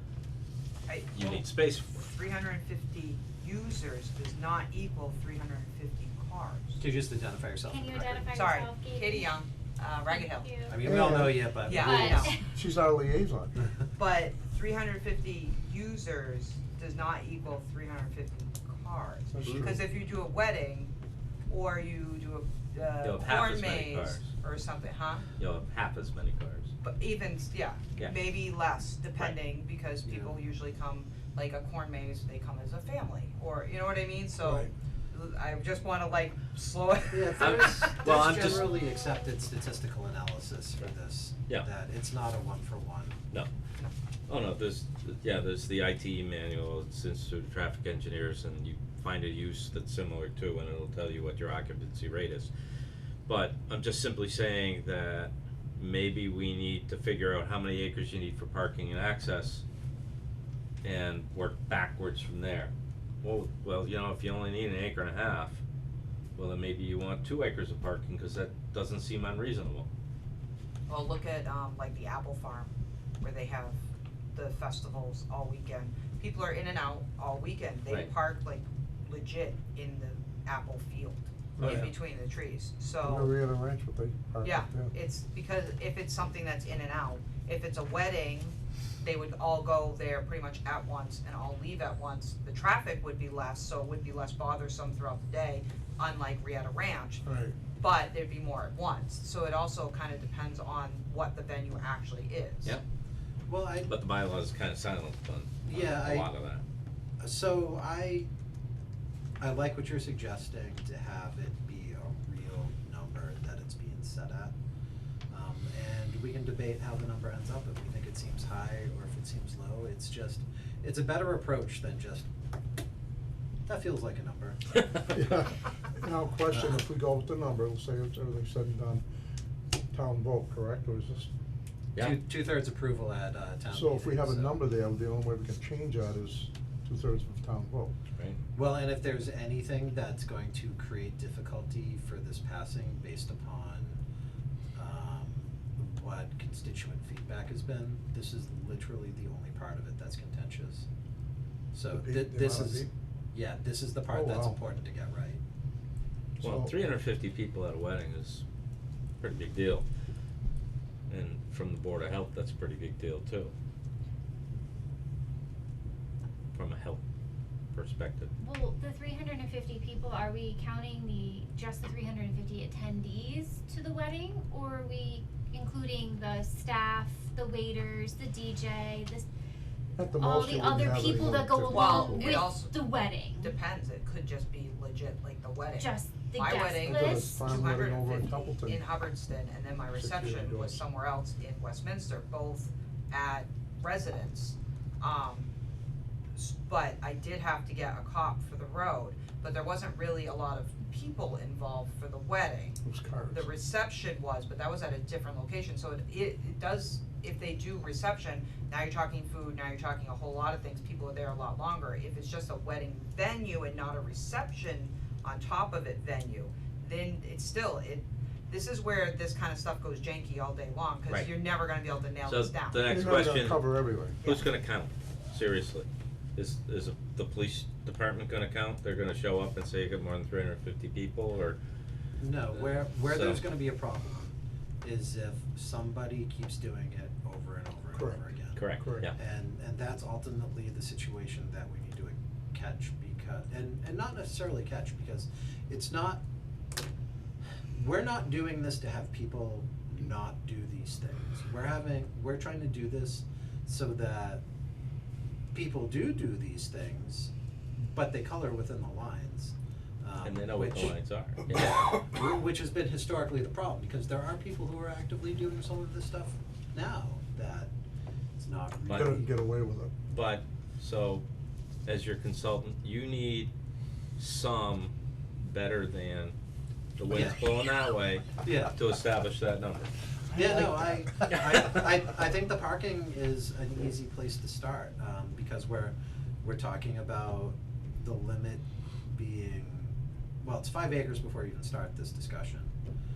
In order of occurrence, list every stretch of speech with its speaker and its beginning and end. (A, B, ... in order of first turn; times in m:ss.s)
0:00.9-0:06.8 A
0:01.1-0:02.0 B
0:06.8-0:08.4 C
0:07.6-0:09.4 D
0:08.3-0:10.5 A
0:10.1-0:12.4 D
0:10.7-0:12.3 C
0:10.8-0:13.6 E
0:11.6-0:12.4 A
0:13.9-0:20.9 A
0:19.3-0:19.8 E
0:21.5-0:25.3 A
0:23.0-0:24.3 B
0:25.4-0:26.7 B
0:26.8-0:38.7 A
0:30.0-0:30.4 C
0:34.4-0:34.7 E
0:37.1-0:43.2 C
0:37.4-0:38.7 B
0:38.8-0:39.2 D
0:44.3-0:52.5 B
0:53.2-0:59.6 B
1:00.8-1:05.6 B
1:06.4-1:09.9 B
1:10.9-1:13.8 A
1:14.3-1:23.3 A
1:21.6-1:21.9 E
1:23.0-1:24.9 E
1:24.4-1:37.2 A
1:37.2-1:37.6 E
1:37.8-1:42.8 A
1:43.5-1:43.9 C
1:43.8-1:46.6 B
1:45.6-1:46.3 C
1:47.2-1:48.3 C
1:49.4-1:54.5 C
1:55.3-2:02.3 C
2:03.6-2:04.6 C
2:05.1-2:09.0 E
2:06.5-2:06.8 C
2:09.9-2:11.3 E
2:12.0-2:14.6 C
2:13.7-2:17.9 E
2:18.5-2:24.0 C
2:24.7-2:30.8 C
2:31.7-2:35.4 C
2:31.9-2:32.9 E
2:34.1-2:34.6 E
2:36.4-2:36.7 E
2:36.4-2:38.4 B
2:39.2-2:39.8 B
2:41.1-2:43.5 B
2:46.5-2:47.0 B
2:47.7-2:48.3 B
2:48.4-2:59.3 D
3:00.0-3:02.4 E
3:00.1-3:03.5 D
3:01.7-3:15.5 A
3:05.7-3:07.4 D
3:06.8-3:08.8 E
3:10.0-3:10.8 E
3:16.3-3:22.8 A
3:22.8-3:23.5 E
3:23.3-3:42.9 A
3:42.2-3:43.7 B
3:42.8-3:44.2 E
3:44.2-3:51.6 B
3:52.2-4:06.2 C
3:52.5-3:53.4 B
3:57.9-3:59.1 E
3:58.5-3:59.1 B
4:07.7-4:14.4 C
4:15.5-4:21.0 C
4:20.2-4:21.7 B
4:21.5-4:27.7 C
4:28.4-4:29.3 C
4:28.9-4:29.1 B
4:28.9-4:29.9 E
4:30.1-4:31.2 B
4:31.8-4:33.5 B
4:34.2-4:36.4 B
4:37.0-4:39.9 B
4:37.0-4:37.4 C
4:38.4-4:38.7 C
4:40.3-4:41.2 E
4:40.3-4:52.7 C
4:41.3-4:41.7 B